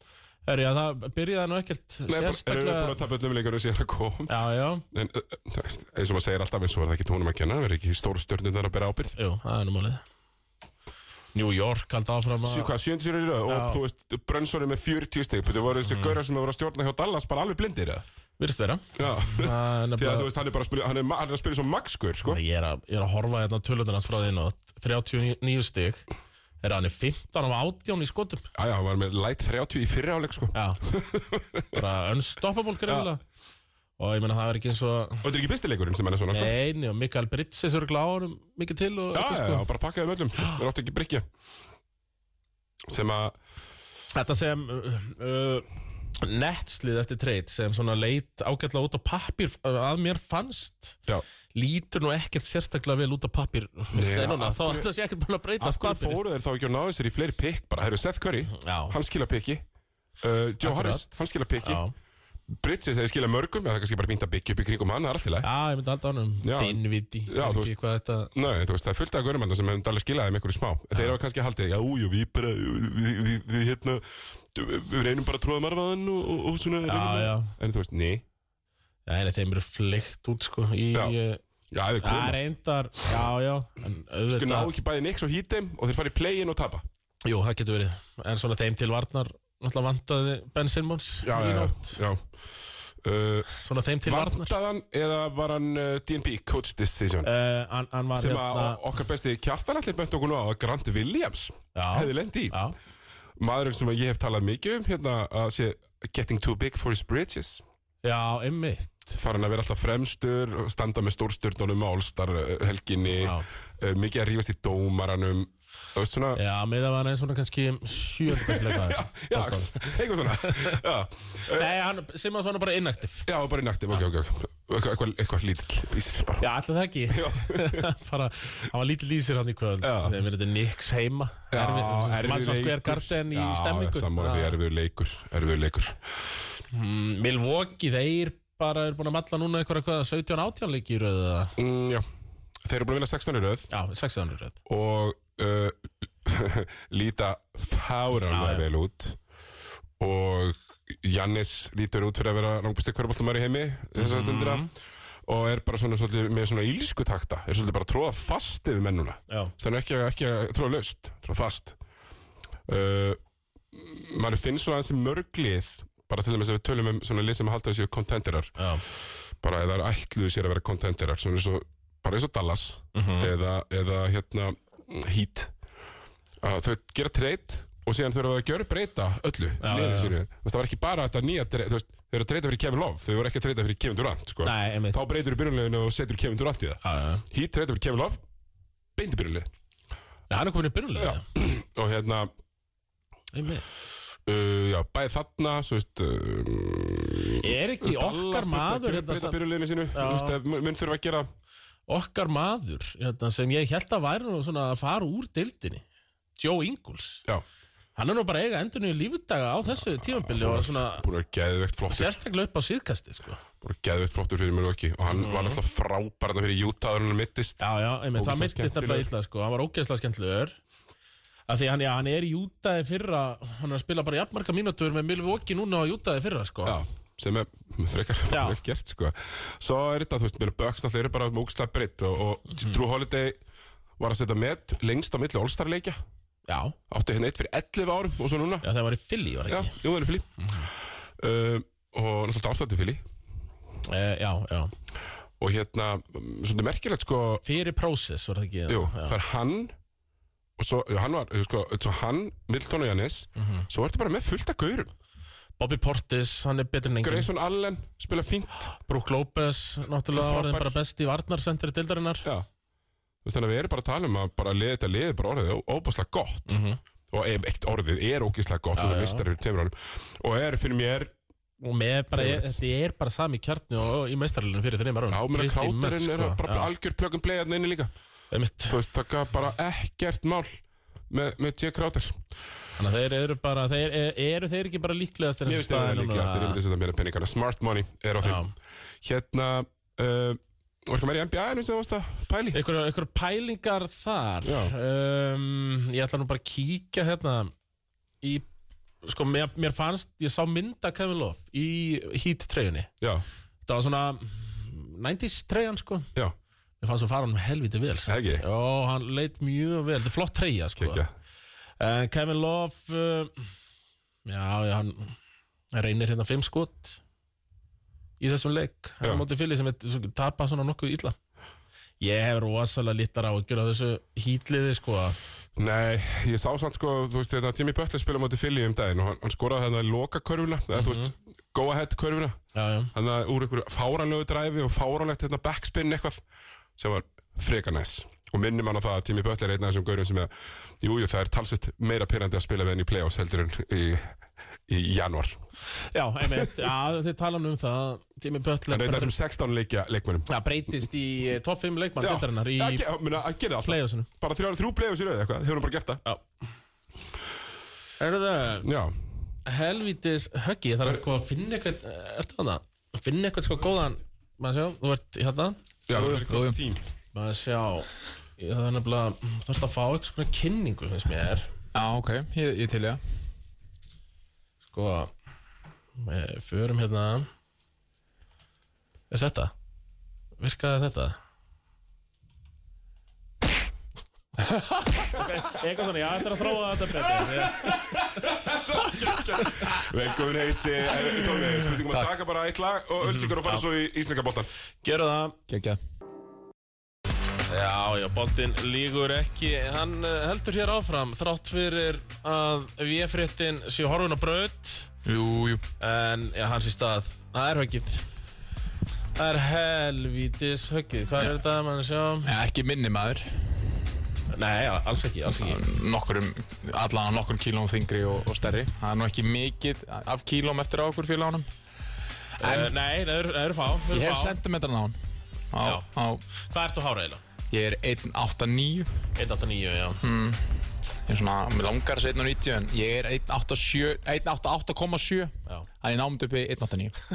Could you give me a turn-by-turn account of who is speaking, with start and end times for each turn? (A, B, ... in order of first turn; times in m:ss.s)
0:00.5-0:03.0 A
0:02.1-0:04.3 B
0:04.3-0:04.8 A
0:04.9-0:09.2 B
0:09.2-0:10.0 A
0:11.3-0:12.7 A
0:12.5-0:18.0 B
0:13.5-0:13.8 A
0:15.9-0:16.2 A
0:18.4-0:20.3 A
0:19.0-0:22.4 B
0:22.2-0:26.0 A
0:26.6-0:28.5 A
0:28.6-0:31.8 B
0:30.5-0:30.8 A
0:31.7-0:33.2 A
0:34.0-0:35.2 A
0:35.2-0:36.5 B
0:36.3-0:39.6 A
0:39.1-0:41.2 B
0:42.9-0:43.4 B
0:44.1-0:45.7 A
0:46.2-0:51.0 A
0:51.5-0:56.2 A
0:53.9-0:54.9 B
0:55.6-0:59.6 B
0:58.5-0:59.0 A
1:00.2-1:01.8 B
1:00.6-1:01.1 A
1:01.6-1:01.9 A
1:02.5-1:05.5 B
1:05.4-1:08.3 A
1:06.4-1:07.7 B
1:08.3-1:18.2 B
1:16.8-1:17.5 A
1:19.1-1:21.4 A
1:21.7-1:22.5 B
1:22.0-1:24.7 A
1:24.3-1:26.8 B
1:27.2-1:32.0 A
1:31.2-1:32.2 B
1:33.0-1:33.5 B
1:33.5-1:34.6 A
1:34.1-1:37.3 B
1:37.2-1:38.8 A
1:38.2-1:42.6 B
1:41.7-1:42.8 A
1:43.4-1:47.6 B
1:48.0-1:49.2 A
1:49.2-1:56.4 B
1:53.1-1:53.5 A
1:56.4-2:00.8 A
1:58.3-2:01.7 B
2:01.5-2:03.3 A
2:03.3-2:06.5 B
2:06.4-2:14.6 A
2:07.1-2:07.9 B
2:09.8-2:10.2 B
2:11.5-2:16.0 B
2:16.7-2:21.6 A
2:21.6-2:22.0 B
2:22.6-2:23.7 B
2:23.7-2:24.6 A
2:24.7-2:29.2 B
2:28.3-2:28.7 A
2:30.0-2:34.7 B
2:34.0-2:34.7 A
2:35.3-2:41.8 B
2:42.7-2:43.2 B
2:43.7-2:48.6 B
2:48.6-2:48.8 A
2:49.4-2:55.5 B
2:52.9-2:53.3 A
2:56.4-3:08.2 B
2:59.6-3:00.2 A
3:04.4-3:05.2 A
3:06.8-3:07.2 A
3:09.0-3:09.5 B
3:10.3-3:11.2 A
3:11.0-3:12.3 B
3:13.3-3:13.6 A
3:14.3-3:21.3 B
3:17.4-3:19.4 A
3:19.9-3:20.4 A
3:21.9-3:25.8 A
3:26.4-3:27.2 A
3:28.0-3:31.1 A
3:30.2-3:32.2 B
3:31.9-3:33.4 A
3:33.6-3:37.6 B
3:35.1-3:35.6 A
3:37.6-3:40.6 A
3:38.2-3:39.1 B
3:41.5-3:46.8 A
3:46.7-3:53.4 B
3:48.3-3:48.6 A
3:54.0-3:56.0 B
3:56.5-3:56.8 A
3:56.9-3:58.7 B
3:58.6-3:59.8 A
3:59.5-4:00.3 B
4:01.2-4:03.0 B
4:03.9-4:04.7 A
4:05.4-4:07.4 B
4:07.4-4:09.2 A
4:08.7-4:09.7 B
4:10.6-4:14.9 B
4:13.4-4:13.6 A
4:15.6-4:17.3 A
4:17.0-4:18.7 B
4:18.8-4:22.3 A
4:20.1-4:20.8 B
4:23.2-4:26.5 B
4:26.5-4:26.8 A
4:27.1-4:31.1 B
4:28.8-4:29.2 A
4:31.6-4:36.7 A
4:32.1-4:32.6 B
4:35.1-4:37.9 B
4:38.3-4:38.8 A
4:38.7-4:40.6 B
4:41.1-4:42.2 B
4:42.8-4:46.6 A
4:45.5-4:48.4 B
4:48.2-4:48.5 A
4:49.0-4:52.6 B
4:52.5-4:57.5 A
4:54.4-4:54.7 B
4:59.0-5:02.9 A
5:03.7-5:06.1 A
5:06.8-5:11.0 A
5:08.1-5:08.4 B
5:10.8-5:11.1 B
5:11.8-5:13.4 A
5:14.3-5:15.2 A
5:15.7-5:17.0 A
5:18.2-5:21.2 A
5:22.0-5:25.2 A
5:25.6-5:32.4 B
5:30.7-5:31.1 A
5:32.5-5:32.9 A
5:32.9-5:36.2 B
5:36.8-5:40.3 B
5:40.8-5:44.2 B
5:44.7-5:45.4 B
5:45.9-5:49.1 A
5:48.7-5:50.3 B
5:50.3-5:52.9 A
5:52.0-5:56.0 B
5:53.6-5:54.1 A
5:58.0-5:58.7 A
5:58.6-5:58.9 B
5:59.5-6:05.6 A
6:05.9-6:06.8 B
6:05.9-6:06.6 C
6:07.1-6:11.5 A
6:11.7-6:13.0 C
6:14.7-6:15.1 A
6:16.0-6:17.3 A
6:19.1-6:19.5 A
6:20.4-6:21.2 A
6:24.4-6:25.1 C
6:25.1-6:28.0 A
6:27.2-6:34.5 B
6:31.8-6:32.1 C
6:33.0-6:33.6 A
6:34.8-6:35.4 A
6:35.5-6:35.8 C
6:37.5-6:44.9 A
6:45.1-6:45.6 C
6:45.8-6:48.1 A
6:49.2-6:52.3 A
6:52.2-6:53.7 C
6:54.3-6:55.6 A
6:55.3-7:01.5 C
7:02.4-7:02.7 C
7:02.4-7:04.4 A
7:03.9-7:05.0 C
7:05.5-7:06.2 C
7:06.4-7:07.2 A
7:07.5-7:08.9 C
7:09.2-7:10.0 A
7:10.0-7:17.0 C